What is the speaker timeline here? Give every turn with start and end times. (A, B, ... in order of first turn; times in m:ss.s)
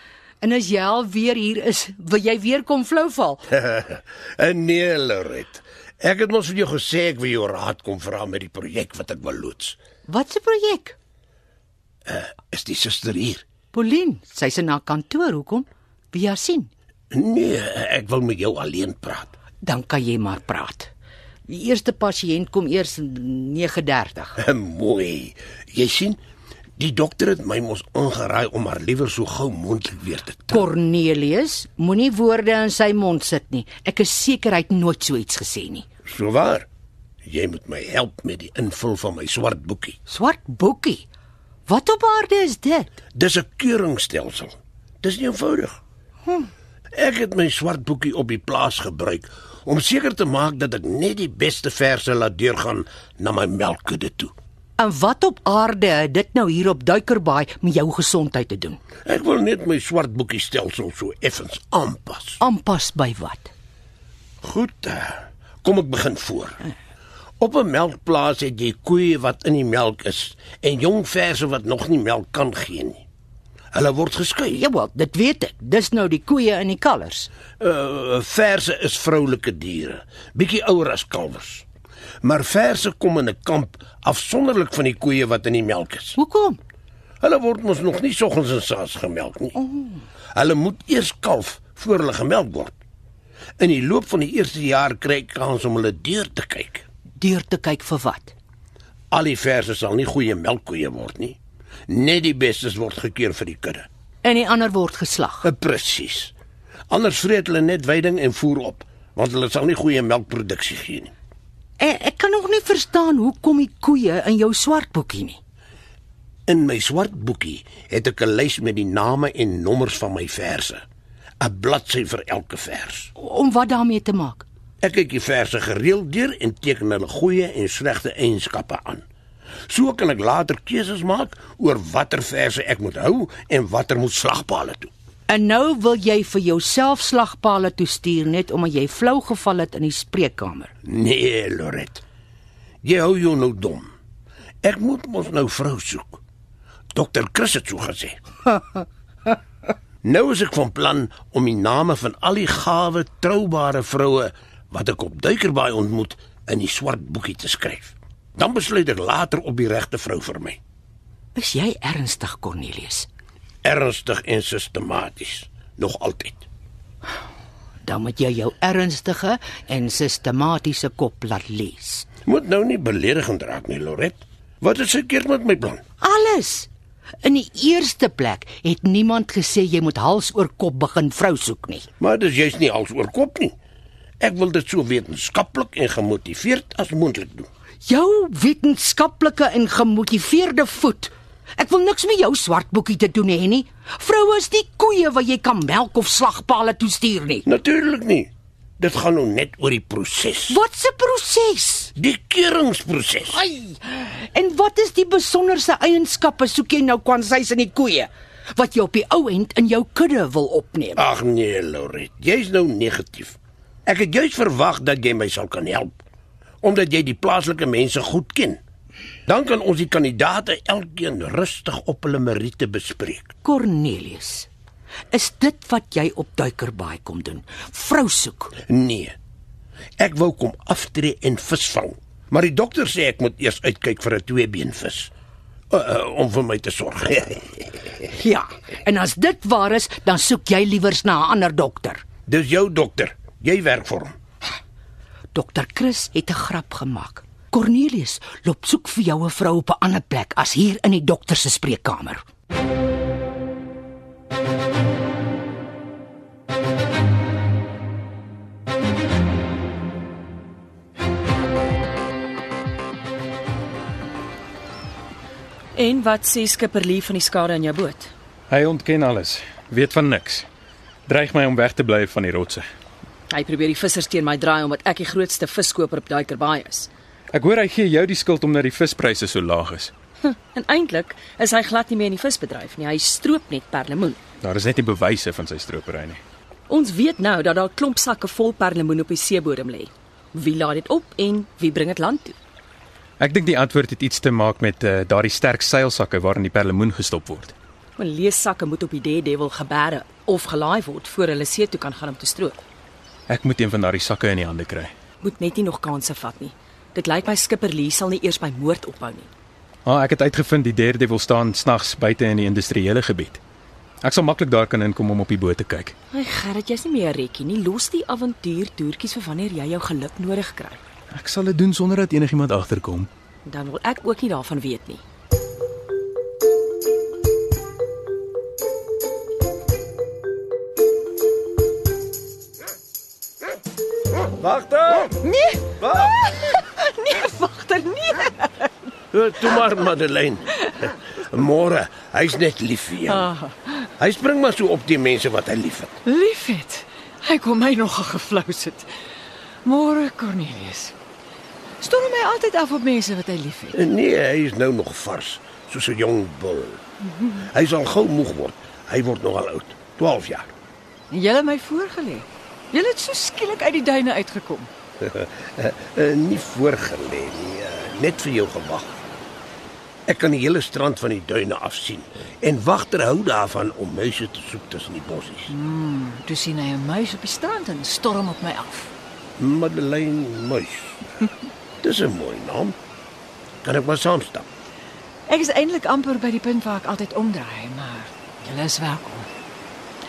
0:00.4-0:03.5 A
0:03.5-0:09.8 B
0:10.1-0:11.0 A
0:12.1-0:13.5 B
0:13.7-0:16.7 A
0:17.1-0:19.3 B
0:19.6-0:20.9 A
0:21.5-0:24.4 A
0:24.4-0:26.2 B
0:26.8-0:30.7 B
0:30.5-0:35.9 A
0:36.1-0:36.7 B
0:37.2-0:40.0 B
0:40.1-0:41.0 A
0:41.7-0:42.9 A
0:43.1-0:45.8 B
0:47.0-0:54.3 B
0:54.8-0:58.8 A
0:59.0-1:02.4 B
1:02.4-1:03.5 A
1:04.4-1:06.6 B
1:07.4-1:13.0 B
1:13.7-1:14.6 B
1:14.5-1:17.3 A
1:17.6-1:21.6 B
1:22.2-1:26.2 B
1:26.2-1:26.6 A
1:27.2-1:29.6 B
1:30.4-1:32.8 B
1:33.6-1:36.8 B
1:37.2-1:38.3 A
1:39.1-1:41.4 B
1:41.9-1:43.9 B
1:44.2-1:45.4 A
1:45.4-1:46.3 B
1:46.9-1:51.1 B
1:51.8-1:55.4 A
1:56.5-2:00.8 B
2:01.4-2:03.1 B
2:03.2-2:04.4 A
2:04.8-2:09.0 B
2:09.7-2:14.9 B
2:15.3-2:20.7 A
2:20.8-2:22.0 B
2:22.8-2:23.9 B
2:24.6-2:26.2 B
2:26.9-2:28.2 B
2:30.0-2:40.6 B
2:41.4-2:43.1 A
2:43.6-2:46.5 B
2:47.8-2:52.1 A
2:52.3-2:55.8 B
2:56.0-2:56.7 A
2:57.2-3:01.9 A
3:02.0-3:03.6 B
3:04.2-3:07.5 B
3:07.9-3:17.5 A
3:17.5-3:20.6 B
3:20.5-3:21.9 A
3:22.0-3:23.4 B
3:23.3-3:31.0 A
3:31.0-3:36.0 B
3:36.6-3:38.6 B
3:39.3-3:43.3 B
3:43.4-3:44.5 A
3:45.1-3:48.6 A
3:48.7-3:49.2 B
3:50.0-3:55.1 B
3:55.7-3:57.9 B
3:58.2-4:02.0 A
4:02.3-4:04.2 B
4:05.3-4:12.2 A
4:25.8-4:28.1 C
4:28.5-4:30.5 D
4:31.1-4:32.6 D
4:33.3-4:36.9 C
4:37.3-4:39.9 D
4:40.3-4:44.2 C
4:44.4-4:46.2 D
4:46.7-4:52.4 C
4:53.2-4:57.5 D
4:58.0-5:02.6 C
5:03.3-5:04.9 D
5:05.2-5:09.3 C
5:09.9-5:13.4 D
5:14.0-5:16.0 D
5:16.1-5:20.8 C
5:21.1-5:23.1 D
5:23.4-5:25.0 C
5:34.4-5:35.2 B
5:35.2-5:38.7 E
5:35.8-5:36.2 B
5:39.1-5:43.3 B
5:43.1-5:43.5 E
5:44.0-5:46.0 B
5:46.1-5:48.9 E
5:49.6-5:50.9 E
5:51.8-5:53.8 E
5:53.7-6:00.5 B
6:01.1-6:04.7 E
6:05.0-6:09.0 B
6:10.1-6:15.6 B
6:15.5-6:18.9 E
6:19.4-6:21.3 B
6:21.8-6:22.8 B
6:23.6-6:24.5 B
6:25.3-6:29.3 E